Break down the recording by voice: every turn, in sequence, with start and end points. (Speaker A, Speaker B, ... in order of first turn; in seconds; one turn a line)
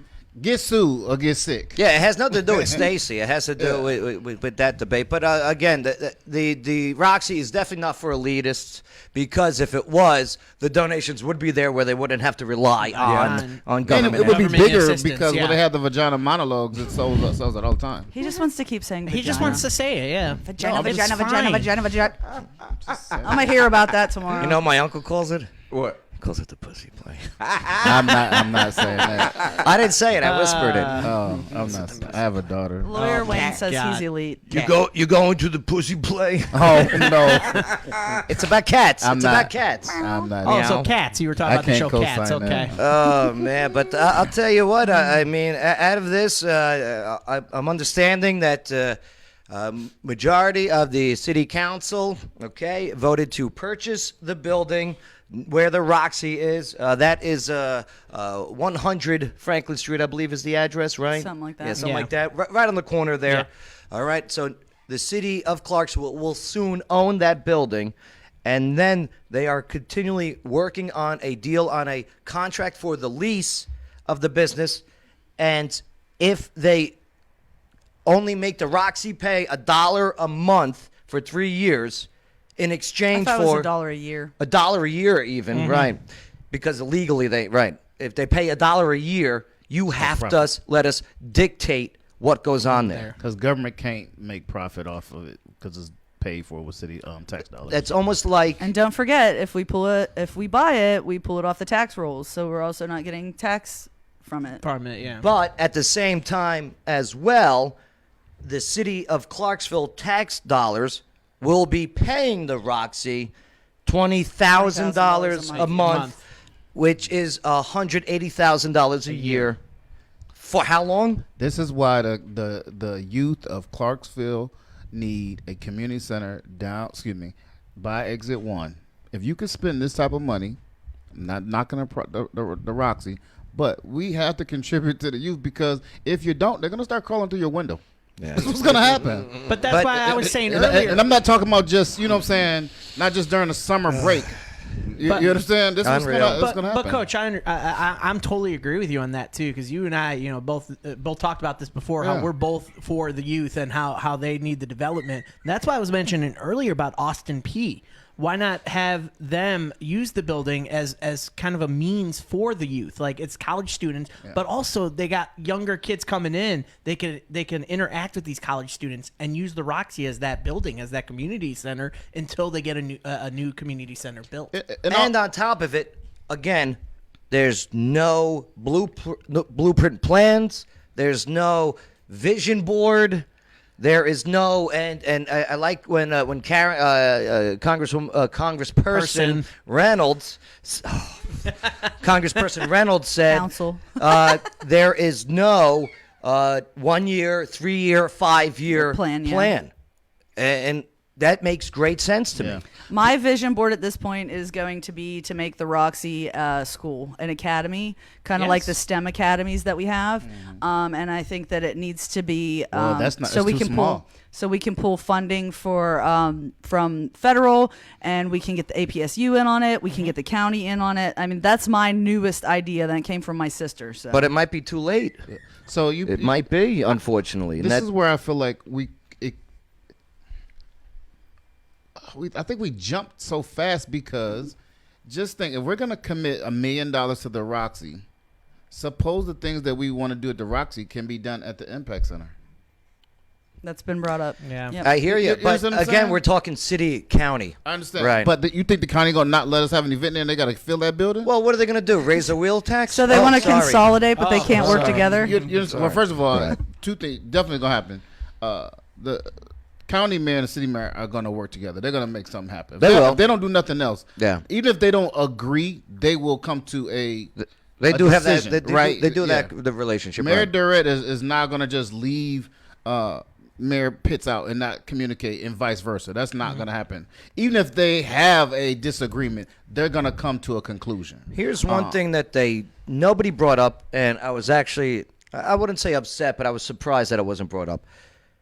Speaker A: 0.4-1.8
Speaker B: 1.8-14.5
Speaker A: 2.5-2.8
Speaker A: 3.6-3.9
Speaker C: 12.9-15.6
Speaker A: 13.0-13.4
Speaker A: 13.9-18.1
Speaker D: 18.1-19.7
Speaker C: 19.1-21.7
Speaker A: 19.3-19.6
Speaker D: 20.4-22.2
Speaker A: 20.6-21.2
Speaker A: 22.6-23.5
Speaker D: 23.2-24.6
Speaker B: 24.4-27.3
Speaker A: 27.8-29.6
Speaker B: 29.2-31.1
Speaker C: 30.2-31.6
Speaker A: 30.6-33.3
Speaker D: 32.8-34.4
Speaker C: 33.0-34.6
Speaker B: 34.5-37.4
Speaker A: 36.5-37.7
Speaker C: 36.9-37.8
Speaker B: 38.3-40.9
Speaker A: 39.0-40.8
Speaker C: 40.4-42.8
Speaker A: 41.4-42.8
Speaker B: 42.8-49.0
Speaker B: 49.5-67.9
Speaker D: 61.1-62.0
Speaker C: 61.8-62.1
Speaker B: 68.5-74.8
Speaker B: 75.4-77.0
Speaker B: 78.1-83.7
Speaker D: 83.1-84.3
Speaker B: 84.4-93.1
Speaker C: 85.5-85.9
Speaker A: 89.9-90.5
Speaker C: 92.7-93.2
Speaker A: 93.2-97.9
Speaker B: 97.7-98.6
Speaker D: 98.6-104.6
Speaker C: 104.6-105.2
Speaker B: 105.2-107.8
Speaker B: 108.4-113.3
Speaker B: 113.9-116.2
Speaker D: 114.5-116.1
Speaker C: 115.5-116.2
Speaker B: 116.7-119.6
Speaker C: 119.2-119.4
Speaker B: 120.4-121.2
Speaker A: 121.4-130.6
Speaker A: 131.1-137.8
Speaker B: 138.2-140.3
Speaker A: 138.3-139.3
Speaker C: 139.5-141.0
Speaker A: 140.1-147.0
Speaker C: 145.1-145.4
Speaker B: 145.8-146.5
Speaker C: 146.3-174.5
Speaker A: 152.0-152.3
Speaker A: 174.5-175.1
Speaker B: 174.9-176.8
Speaker B: 177.3-183.3
Speaker B: 183.8-199.7
Speaker C: 188.9-189.5
Speaker D: 193.3-194.1
Speaker D: 198.7-199.5
Speaker B: 200.4-202.6
Speaker A: 202.3-202.7
Speaker D: 202.9-224.3
Speaker C: 208.4-208.8
Speaker A: 210.2-210.6
Speaker A: 212.7-214.1
Speaker B: 224.1-225.2
Speaker A: 225.3-226.4
Speaker B: 226.1-227.8
Speaker A: 227.6-229.4
Speaker A: 232.0-234.6
Speaker A: 235.1-238.0
Speaker A: 238.7-242.3
Speaker D: 243.6-244.9
Speaker C: 244.4-244.8
Speaker B: 244.8-248.3
Speaker A: 244.9-246.2
Speaker A: 247.7-251.3
Speaker B: 251.2-253.9
Speaker D: 252.9-255.3
Speaker C: 253.3-253.6
Speaker C: 254.2-255.4
Speaker B: 254.5-255.1
Speaker A: 254.5-259.3
Speaker B: 255.7-256.6
Speaker A: 259.9-267.3
Speaker B: 262.8-263.2
Speaker B: 264.2-264.4
Speaker B: 267.4-270.5
Speaker A: 267.9-269.5
Speaker A: 270.2-282.0
Speaker B: 281.3-287.8